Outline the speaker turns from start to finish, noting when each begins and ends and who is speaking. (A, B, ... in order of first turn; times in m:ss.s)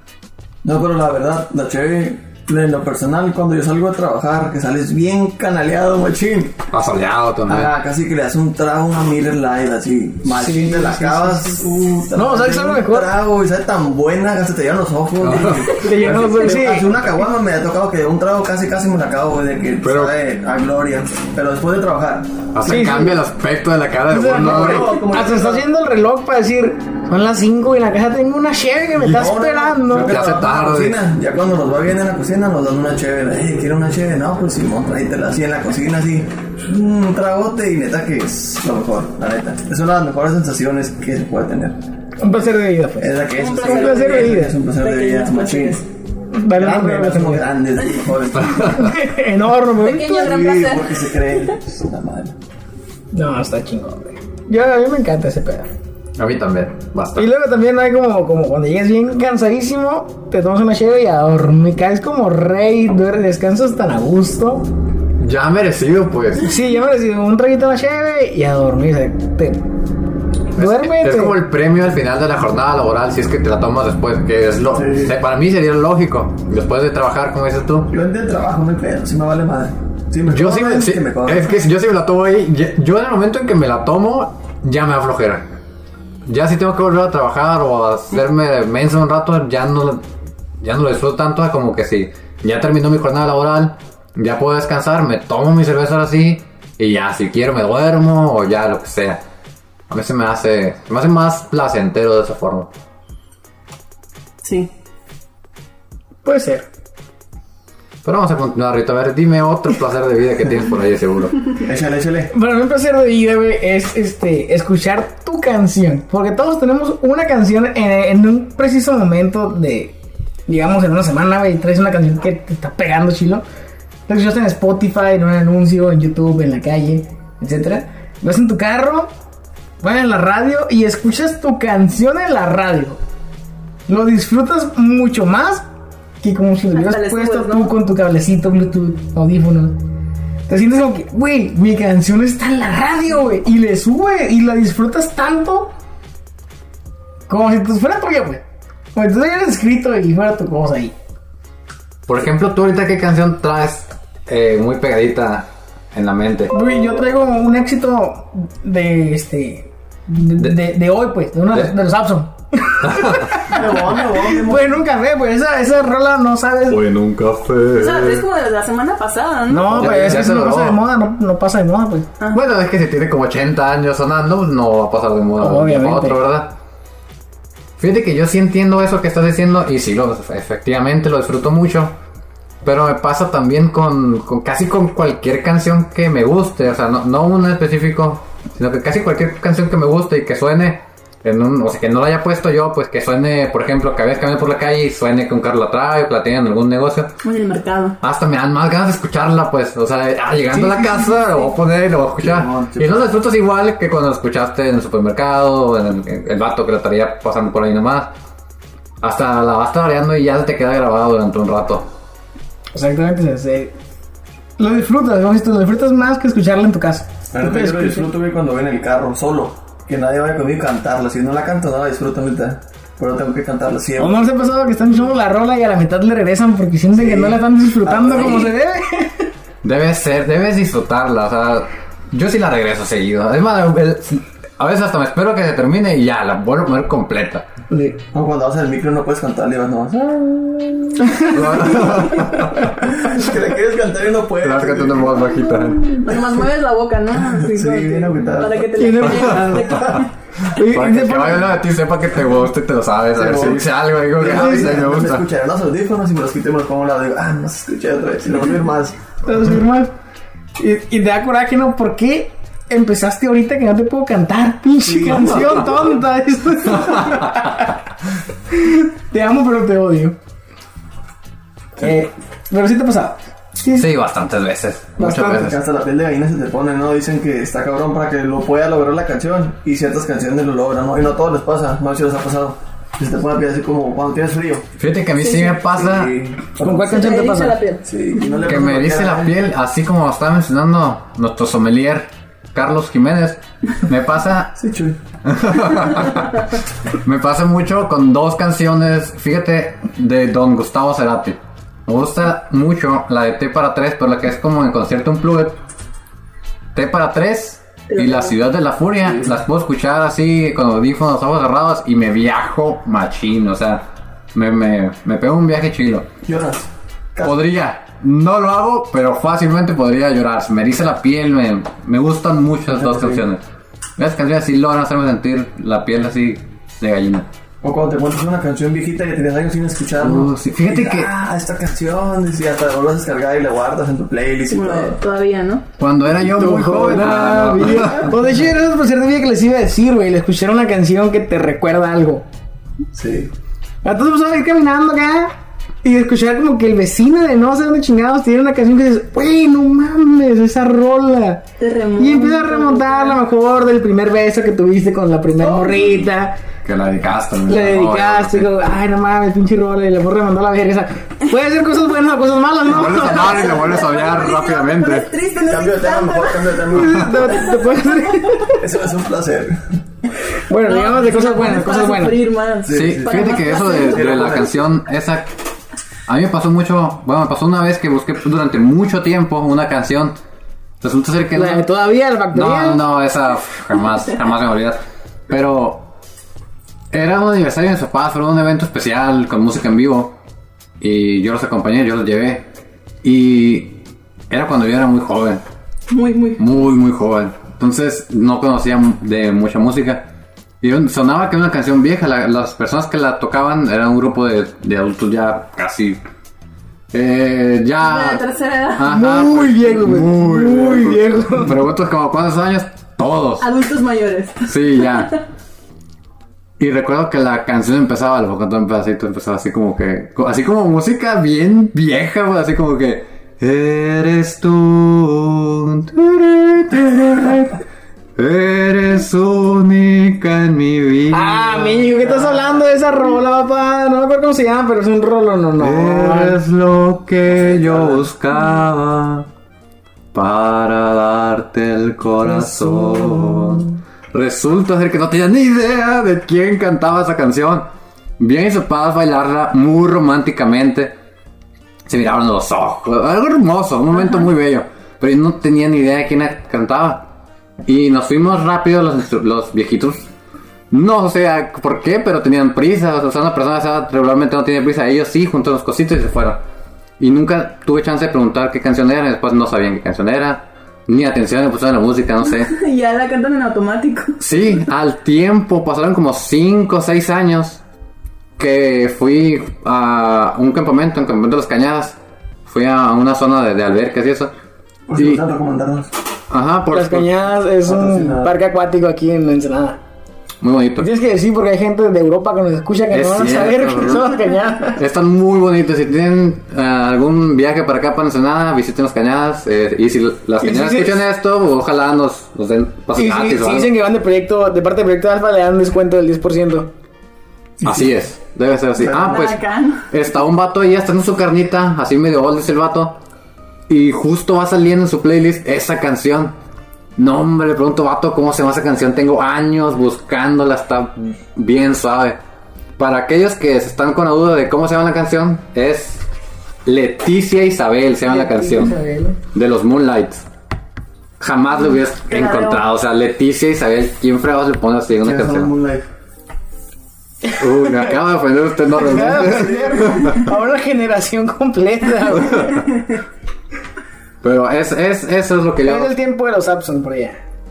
0:00.6-0:06.6 A
0:06.7-0:07.7 B
0:07.5-0:22.3 A
0:10.3-0:11.5 C
0:12.1-0:13.1 C
0:15.2-0:15.8 B
0:15.8-0:16.9 C
0:19.8-0:20.1 B
0:22.5-0:25.0 B
0:22.6-0:23.2 C
0:24.1-0:30.2 C
0:24.2-0:25.7 A
0:29.0-0:41.8 A
0:29.9-0:31.0 B
0:42.2-0:44.6 C
0:43.0-0:45.8 A
0:43.4-0:45.8 D
0:46.3-0:47.5 C
0:46.5-0:48.9 A
0:48.5-0:48.9 B
0:48.7-0:50.3 C
0:49.8-0:51.5 D
0:50.2-0:52.4 A
0:53.1-0:55.7 C
0:56.2-0:57.3 B
0:57.2-1:04.7 C
1:05.2-1:06.5 B
1:06.4-1:09.6 C
1:10.5-1:11.4 C
1:10.6-1:17.9 B
1:14.8-1:15.2 A
1:17.9-1:21.6 A
1:20.3-1:25.5 B
1:26.2-1:30.0 B
1:30.6-1:39.2 B
1:39.9-1:42.7 B
1:44.4-1:44.7 D
1:46.2-1:46.6 C
1:48.0-1:51.6 B
1:51.6-1:52.3 A
1:52.3-2:03.4 C
2:04.1-2:09.1 C
2:09.8-2:13.0 C
2:13.9-2:15.6 C
2:16.2-2:19.8 C
2:16.7-2:17.7 D
2:20.5-2:25.7 C
2:27.3-2:28.4 C
2:29.0-2:30.9 C
2:32.1-2:36.5 B
2:36.5-2:46.8 C
2:42.8-2:43.4 B
2:43.4-2:44.8 A
2:46.7-2:48.2 B
2:47.8-2:50.3 D
2:49.5-2:52.1 C
2:49.7-2:50.8 B
2:52.3-2:56.5 B
2:55.4-2:56.2 C
2:57.8-3:02.0 B
3:02.6-3:17.1 B
3:17.2-3:18.0 D
3:18.0-3:28.1 B
3:22.2-3:23.1 A
3:29.0-3:31.9 B
3:32.7-3:33.7 C
3:34.6-3:38.1 C
3:37.3-3:44.3 A
3:44.0-3:49.3 C
3:46.9-3:48.5 A
3:49.6-3:57.5 B
3:57.7-3:58.0 C
3:58.1-4:02.1 A
4:01.0-4:01.6 C
4:01.3-4:02.8 B
4:02.8-4:05.5 A
4:04.4-4:06.0 B
4:05.8-4:10.1 D
4:06.1-4:06.3 A
4:07.3-4:09.5 A
4:08.8-4:10.0 C
4:10.5-4:11.5 C
4:10.6-4:15.2 B
4:13.1-4:19.0 A
4:14.3-4:14.7 C
4:19.2-4:19.9 C
4:20.6-4:27.7 C
4:24.8-4:25.9 A
4:26.8-4:27.4 B
4:28.5-4:30.2 C
4:31.8-4:33.9 C
4:33.7-4:35.6 B
4:35.0-4:35.3 C
4:35.0-4:44.6 A
4:44.8-4:46.1 B
4:45.2-4:45.6 D
4:45.6-4:47.0 A
4:46.6-4:47.6 C
4:46.9-4:47.8 D
4:47.8-4:49.4 A
4:48.4-4:54.5 B
4:54.6-4:55.0 A
4:55.2-5:05.6 B
5:06.7-5:16.1 B
5:07.9-5:08.4 D
5:09.0-5:09.3 A
5:16.2-5:17.4 A
5:17.2-5:23.4 B
5:22.7-5:23.2 A
5:24.0-5:27.3 B
5:27.6-5:35.0 A
5:30.0-5:31.1 B
5:34.5-5:35.6 D
5:35.8-5:38.1 B
5:36.4-5:42.2 C
5:42.9-5:43.3 A
5:43.8-5:45.3 C
5:45.8-5:51.4 C
5:51.6-5:53.2 D
5:52.0-5:56.4 C
5:55.5-5:55.9 D
5:56.6-5:58.5 B
5:57.5-6:03.7 C
6:02.7-6:05.1 B
6:03.0-6:06.6 D
6:05.5-6:07.4 A
6:06.7-6:08.6 C
6:07.2-6:08.1 D
6:08.5-6:09.8 A
6:10.5-6:12.2 C
6:10.6-6:14.3 D
6:12.6-6:14.6 A
6:12.7-6:15.3 B
6:16.1-6:20.2 B
6:20.8-6:21.7 B
6:21.3-6:22.8 C
6:22.3-6:25.9 B
6:26.9-6:30.2 B
6:30.8-6:32.4 B
6:33.0-6:35.4 B
6:35.9-6:36.4 D
6:36.4-6:40.0 B
6:40.6-6:46.0 B
6:46.9-6:48.2 B
6:47.8-6:49.0 D
6:48.8-6:53.4 B
6:48.8-6:51.5 C
6:53.4-6:55.2 D
6:54.5-6:55.2 B
6:56.6-7:07.6 B
7:08.2-7:12.0 B
7:11.1-7:16.4 C
7:15.6-7:19.3 B
7:17.3-7:18.1 A
7:20.1-7:31.0 B
7:22.3-7:23.6 C
7:31.9-7:37.1 B
7:37.6-7:40.1 B
7:40.7-7:46.4 B
7:47.0-7:52.5 B
7:52.2-7:54.5 D
7:54.2-7:57.6 B
7:58.4-8:04.3 B
8:04.9-8:05.9 A
8:05.0-8:05.2 B
8:06.3-8:07.1 B
8:06.7-8:09.8 C
8:07.6-8:08.4 A
8:10.4-8:10.9 B
8:10.8-8:14.8 C
8:12.9-8:14.2 B
8:14.7-8:23.7 B
8:20.4-8:21.0 C
8:23.0-8:26.7 C
8:27.6-8:27.9 A
8:27.6-8:33.0 B
8:28.8-8:29.2 A
8:28.9-8:29.9 D
8:33.7-8:36.3 B
8:37.0-8:42.2 B
8:42.8-8:46.0 B
8:46.6-8:48.8 B
8:48.0-8:49.2 C
8:49.3-8:50.2 B
8:51.2-8:55.5 B
8:52.0-8:52.6 D
8:55.0-8:55.8 A
8:57.4-9:00.2 B
8:58.8-9:02.6 C
8:59.0-9:00.2 A
9:04.2-9:05.9 B
9:05.6-9:07.2 C